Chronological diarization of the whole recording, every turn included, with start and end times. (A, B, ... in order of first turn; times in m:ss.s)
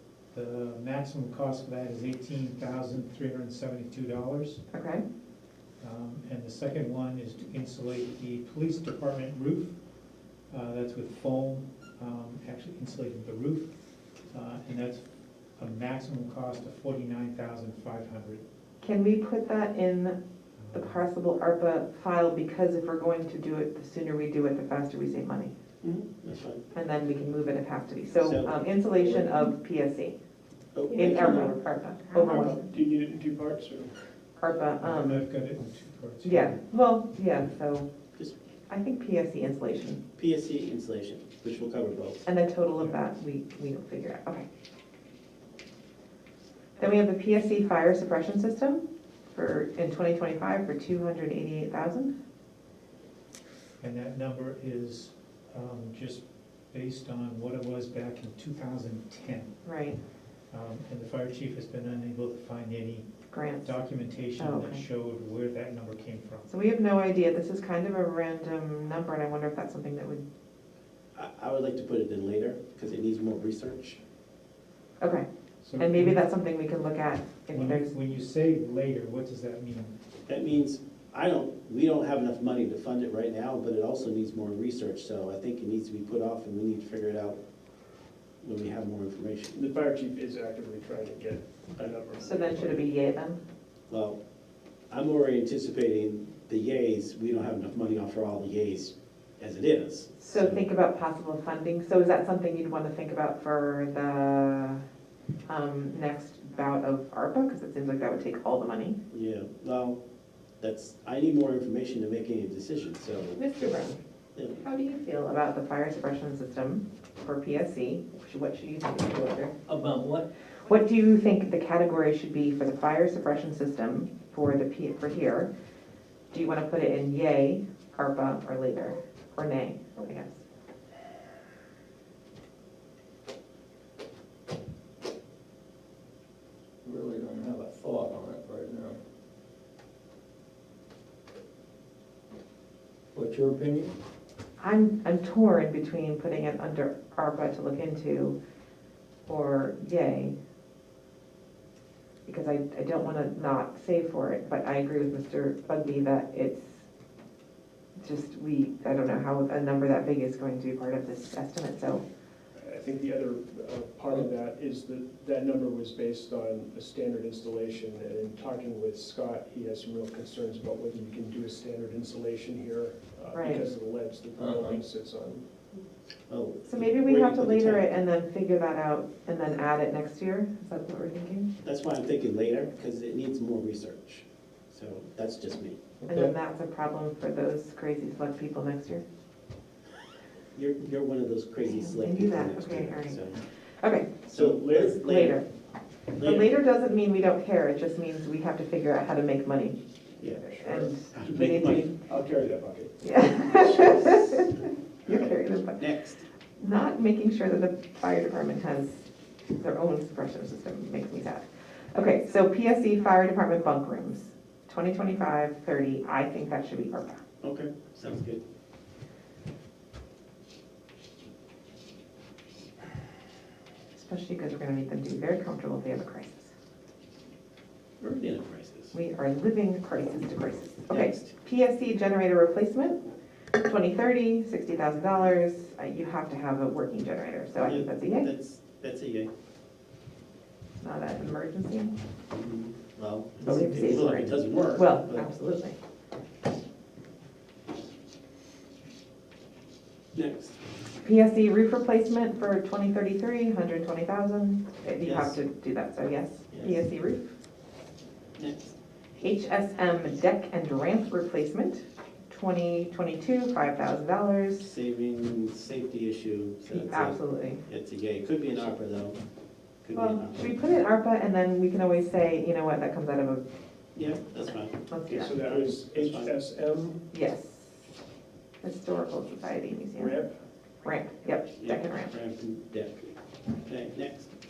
0:00.3-0:04.6 A
0:04.7-0:05.0 B
0:05.8-0:09.8 A
0:10.5-0:13.7 A
0:14.3-0:15.0 A
0:15.6-0:18.4 A
0:18.8-0:20.2 B
0:20.6-0:20.9 A
0:20.7-0:25.5 B
0:25.8-0:26.6 C
0:26.7-0:30.2 B
0:28.2-0:29.5 C
0:30.7-0:31.6 C
0:30.9-0:32.6 B
0:32.2-0:34.1 D
0:34.4-0:35.2 B
0:34.8-0:36.6 A
0:36.2-0:37.9 B
0:38.7-0:40.0 B
0:40.2-0:42.2 C
0:42.2-0:44.4 B
0:46.8-0:52.1 B
0:53.8-0:59.5 A
0:59.6-1:00.0 B
1:00.5-1:03.1 A
1:03.3-1:03.8 B
1:03.6-1:06.5 A
1:04.4-1:04.8 B
1:06.5-1:10.2 B
1:11.1-1:14.0 C
1:15.0-1:15.2 B
1:15.6-1:16.2 A
1:15.8-1:17.9 B
1:17.5-1:20.0 A
1:20.3-1:27.4 C
1:28.4-1:29.6 C
1:29.5-1:32.8 D
1:32.2-1:33.4 B
1:33.9-1:34.2 C
1:34.9-1:40.6 C
1:40.2-1:44.8 B
1:45.5-1:49.0 B
1:49.1-1:50.0 C
1:50.6-1:53.4 C
1:53.4-1:54.0 B
1:54.3-1:54.6 C
1:54.6-1:59.6 B
1:59.7-2:00.3 E
2:00.6-2:05.5 B
2:06.3-2:10.4 B
2:16.8-2:19.0 E
2:23.1-2:23.9 E
2:24.6-2:28.4 B
2:29.3-2:30.4 B
2:32.2-2:36.8 B
2:38.0-2:42.0 B
2:42.6-2:55.4 D
2:53.3-2:53.6 B
2:54.3-2:54.8 E
2:56.3-2:57.9 C
2:56.7-3:01.5 B
3:01.6-3:05.8 C
3:06.0-3:06.3 E
3:06.1-3:09.0 B
3:10.5-3:13.4 C
3:11.6-3:14.2 B
3:14.3-3:15.4 C
3:14.3-3:15.0 D
3:14.9-3:15.5 B
3:16.2-3:16.5 C
3:16.2-3:19.8 B
3:20.2-3:22.0 C
3:20.4-3:22.9 D
3:20.5-3:21.9 B
3:23.0-3:25.8 B
3:25.0-3:26.2 C
3:26.6-3:29.1 B
3:29.6-3:37.2 B
3:37.4-3:38.4 C
3:43.9-3:46.5 B
3:48.0-3:48.9 C
3:48.9-3:53.0 B
3:50.9-3:51.3 C
3:53.6-3:58.3 B
3:57.6-3:59.3 C
4:00.8-4:01.9 B
4:02.3-4:05.3 C
4:03.4-4:05.8 B
4:10.1-4:10.6 C
4:11.0-4:17.3 B
4:15.0-4:15.4 C
4:16.5-4:16.8 C
4:18.4-4:18.7 C
4:19.2-4:24.7 B
4:24.6-4:29.2 C
4:26.7-4:27.6 B
4:29.8-4:30.5 C
4:29.9-4:33.4 B
4:33.9-4:34.8 C
4:34.9-4:35.4 B
4:35.1-4:37.0 D
4:35.4-4:36.3 C
4:37.1-4:37.8 B
4:38.6-4:40.2 B
4:39.9-4:40.4 D
4:40.8-4:42.1 B
4:41.6-4:43.1 C
4:43.6-4:44.3 C